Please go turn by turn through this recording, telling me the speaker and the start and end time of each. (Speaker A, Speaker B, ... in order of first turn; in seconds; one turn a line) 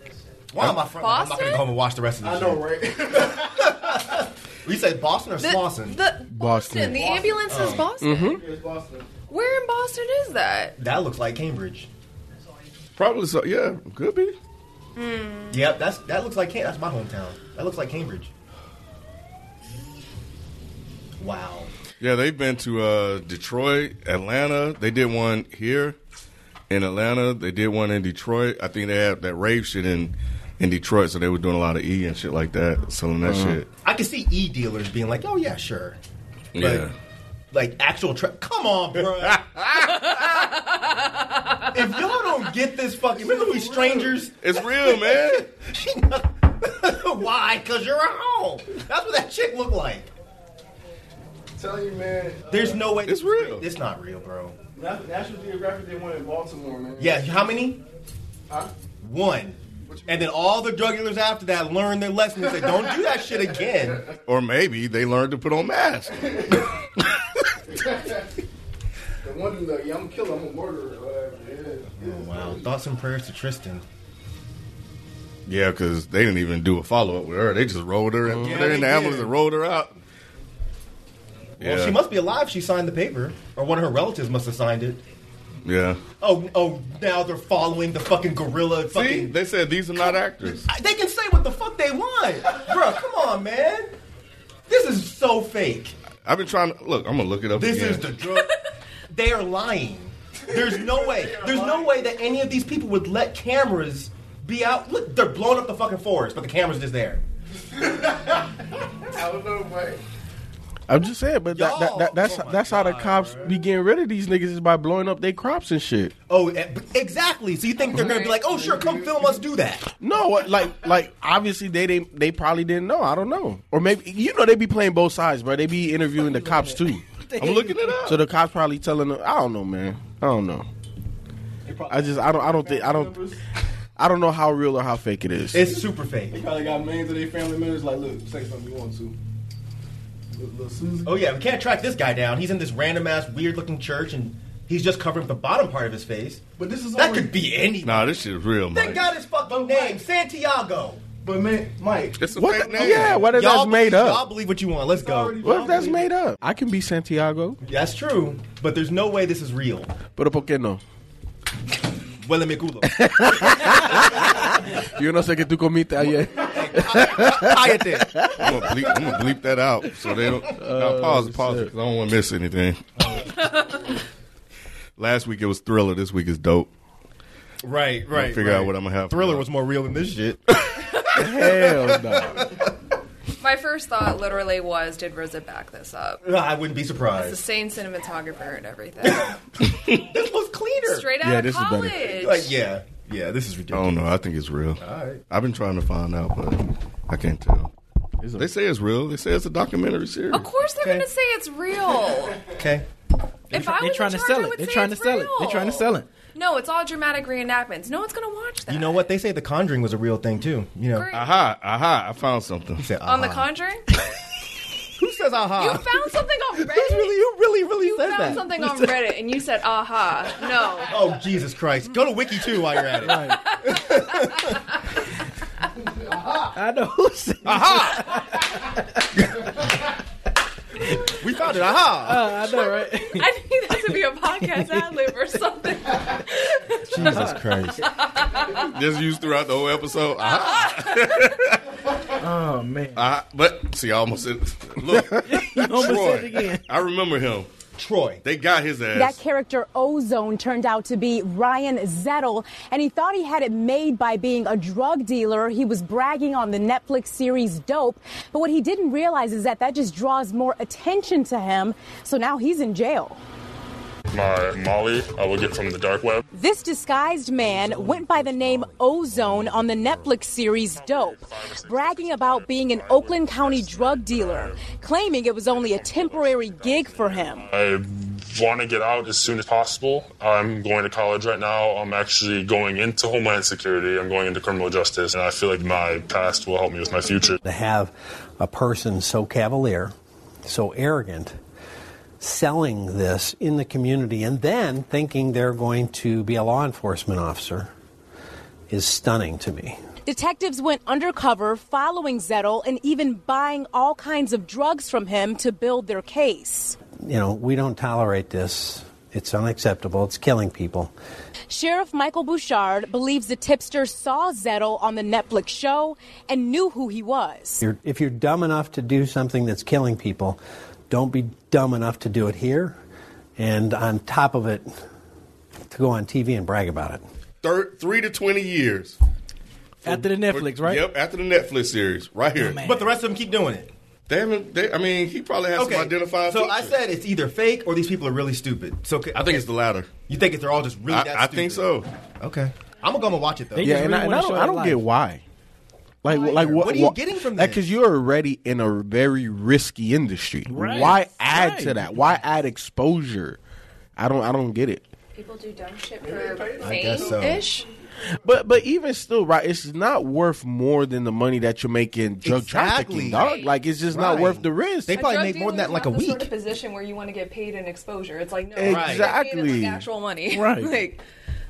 Speaker A: 0.5-6.0
Speaker B: 0.9-1.7
Speaker C: 2.2-3.8
Speaker B: 5.4-8.4
Speaker D: 6.3-7.1
Speaker C: 6.8-9.1
Speaker A: 7.5-7.9
Speaker D: 8.0-8.4
Speaker B: 9.3-10.8
Speaker A: 10.8-11.9
Speaker E: 13.0-14.3
Speaker B: 14.9-15.7
Speaker A: 15.5-18.3
Speaker A: 21.2-21.7
Speaker E: 22.0-25.9
Speaker E: 26.7-33.7
Speaker D: 33.2-33.6
Speaker A: 33.8-36.0
Speaker E: 36.5-36.9
Speaker A: 36.5-36.9
Speaker A: 37.5-39.5
Speaker E: 39.5-40.0
Speaker A: 41.7-50.1
Speaker C: 43.2-44.2
Speaker E: 44.4-45.5
Speaker C: 51.5-52.9
Speaker A: 52.5-54.5
Speaker E: 53.0-53.6
Speaker C: 54.8-57.5
Speaker A: 57.0-57.8
Speaker A: 59.0-64.1
Speaker C: 59.9-60.3
Speaker C: 62.6-63.0
Speaker E: 64.2-67.0
Speaker C: 66.3-66.6
Speaker C: 67.9-68.2
Speaker C: 69.2-72.7
Speaker A: 72.0-73.8
Speaker E: 75.5-80.0
Speaker D: 78.2-78.8
Speaker A: 78.3-79.3
Speaker E: 81.6-82.0
Speaker A: 81.6-85.0
Speaker E: 85.6-86.0
Speaker A: 86.2-89.3
Speaker E: 88.9-90.7
Speaker A: 90.0-93.9
Speaker A: 94.7-95.9
Speaker E: 96.2-98.1
Speaker A: 97.5-98.5
Speaker A: 99.1-107.2
Speaker C: 100.5-102.1
Speaker C: 107.8-108.4
Speaker C: 109.1-110.0
Speaker D: 110.9-116.1
Speaker A: 111.5-113.5
Speaker A: 116.3-119.9
Speaker C: 118.0-119.4
Speaker D: 120.0-127.0
Speaker F: 126.2-128.1
Speaker E: 127.3-128.2
Speaker D: 128.0-130.7
Speaker C: 131.6-133.4
Speaker D: 131.9-133.2
Speaker D: 134.0-135.8
Speaker A: 135.5-136.4
Speaker C: 136.3-139.2
Speaker C: 140.3-141.2
Speaker A: 141.0-146.4
Speaker C: 146.6-147.5
Speaker A: 146.9-151.0
Speaker E: 147.8-149.1
Speaker C: 148.8-150.0
Speaker C: 151.2-153.2
Speaker E: 152.2-153.2
Speaker D: 152.3-154.3
Speaker A: 152.8-155.9
Speaker C: 154.9-156.1
Speaker D: 155.4-157.6
Speaker A: 157.6-159.9
Speaker D: 160.2-160.8
Speaker A: 162.2-164.3
Speaker D: 162.8-168.6
Speaker A: 166.4-169.2
Speaker E: 168.3-172.8
Speaker D: 170.5-171.7
Speaker A: 173.0-173.3
Speaker B: 173.4-173.8
Speaker E: 175.0-176.7
Speaker A: 177.6-182.7
Speaker E: 178.1-179.4
Speaker D: 181.1-182.5
Speaker B: 183.4-186.2
Speaker A: 186.2-187.4
Speaker B: 187.1-189.4
Speaker A: 189.0-189.4
Speaker E: 189.6-190.1
Speaker A: 189.9-191.1
Speaker B: 190.8-192.6
Speaker D: 191.2-192.1
Speaker A: 192.1-194.1
Speaker E: 193.7-197.7
Speaker A: 194.8-195.2
Speaker D: 198.2-198.5
Speaker E: 198.4-200.5
Speaker B: 200.3-202.4
Speaker A: 200.8-201.1
Speaker A: 202.5-202.8
Speaker F: 203.5-206.1
Speaker B: 203.5-209.1
Speaker A: 208.7-211.1
Speaker B: 210.9-211.3
Speaker E: 211.1-212.9
Speaker A: 212.8-213.5
Speaker B: 213.0-213.8
Speaker A: 215.0-218.9
Speaker B: 215.6-217.2
Speaker B: 217.8-221.1
Speaker A: 220.9-224.6
Speaker B: 222.9-224.5
Speaker F: 223.0-223.5
Speaker F: 226.5-228.4
Speaker A: 227.4-228.2
Speaker A: 231.1-232.3
Speaker F: 232.0-235.1
Speaker B: 232.2-238.7
Speaker A: 236.9-237.8
Speaker F: 237.0-237.8
Speaker E: 238.5-241.6
Speaker B: 240.2-241.3
Speaker F: 242.2-243.1
Speaker E: 242.9-247.5
Speaker D: 244.9-245.7
Speaker F: 245.3-246.6
Speaker A: 247.8-248.2
Speaker E: 248.2-249.2
Speaker G: 248.9-263.2
Speaker H: 264.1-266.2
Speaker G: 266.3-277.5
Speaker H: 270.7-274.7
Speaker H: 275.5-287.4
Speaker I: 287.4-289.9
Speaker I: 290.4-291.3
Speaker I: 292.2-297.7
Speaker I: 298.7-299.8
Speaker G: 300.1-306.8
Speaker I: 307.0-310.9
Speaker G: 311.5-317.6
Speaker I: 317.6-320.4
Speaker I: 320.9-322.8
Speaker I: 323.4-324.7
Speaker I: 325.7-327.0
Speaker E: 327.4-328.9
Speaker E: 329.8-332.6
Speaker F: 329.8-330.9
Speaker F: 332.4-332.9
Speaker A: 332.6-333.7
Speaker E: 334.1-336.7
Speaker A: 335.5-339.5
Speaker E: 339.1-339.9
Speaker A: 340.1-343.9
Speaker E: 340.9-341.9
Speaker F: 343.5-344.9
Speaker D: 343.6-345.2
Speaker D: 346.0-353.4
Speaker A: 346.1-347.6
Speaker F: 350.4-352.1
Speaker D: 354.0-354.8
Speaker B: 355.1-357.6
Speaker C: 356.0-357.7
Speaker A: 356.6-357.4
Speaker D: 358.2-365.0
Speaker A: 362.2-363.3
Speaker B: 363.1-363.6
Speaker A: 363.9-366.3
Speaker B: 364.9-371.0
Speaker D: 368.5-369.8
Speaker A: 368.6-369.1
Speaker F: 370.3-370.8